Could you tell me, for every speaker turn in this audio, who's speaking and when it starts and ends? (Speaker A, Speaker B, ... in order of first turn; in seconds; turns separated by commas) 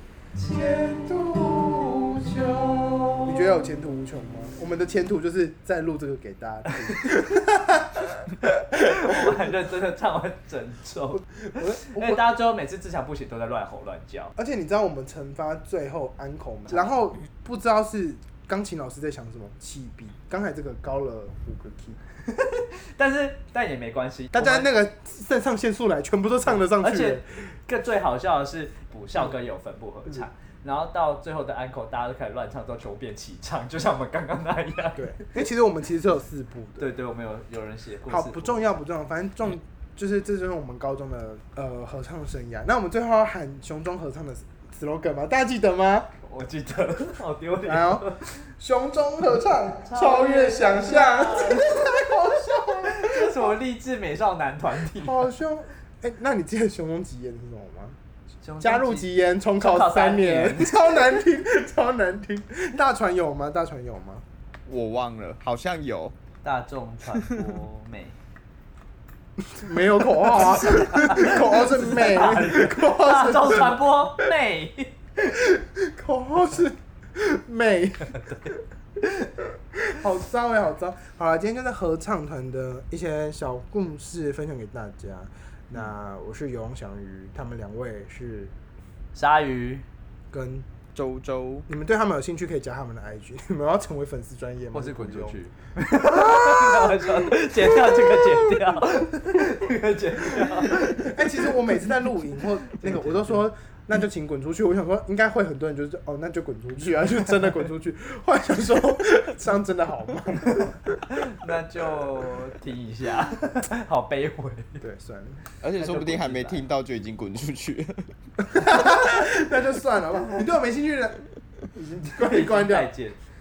Speaker A: 0.3-3.4, Speaker B: 3.3-9.4, Speaker A: 6.7-7.2, Speaker A: 8.4-14.3, Speaker B: 11.2-12.2, Speaker B: 14.4-22.0, Speaker A: 22.3-24.7, Speaker B: 24.3-27.2, Speaker A: 26.4-35.4, Speaker B: 35.0-36.9, Speaker A: 36.8-38.6, Speaker B: 38.1-46.1, Speaker A: 46.2-48.5, Speaker B: 47.6-48.1, Speaker B: 48.6-53.5, Speaker A: 49.9-51.9, Speaker A: 52.9-55.3, Speaker B: 55.0-58.0, Speaker A: 58.4-60.8, Speaker B: 58.6-64.2, Speaker C: 64.7-66.2, Speaker A: 66.4-68.2, Speaker B: 69.4-74.3, Speaker A: 70.5-74.9, Speaker B: 75.2-78.5, Speaker A: 78.1-78.5, Speaker B: 79.9-88.5, Speaker A: 89.2-89.8, Speaker B: 90.3-90.7, Speaker C: 90.9-91.7, Speaker B: 91.7-95.4, Speaker A: 94.7-101.2, Speaker B: 96.0-98.6, Speaker B: 100.3-111.0, Speaker A: 102.8-103.4, Speaker A: 111.1-114.8, Speaker B: 114.8-115.4, Speaker C: 115.6-118.1, Speaker A: 115.8-116.7, Speaker B: 118.5-121.2, Speaker B: 121.7-122.9, Speaker A: 122.2-123.2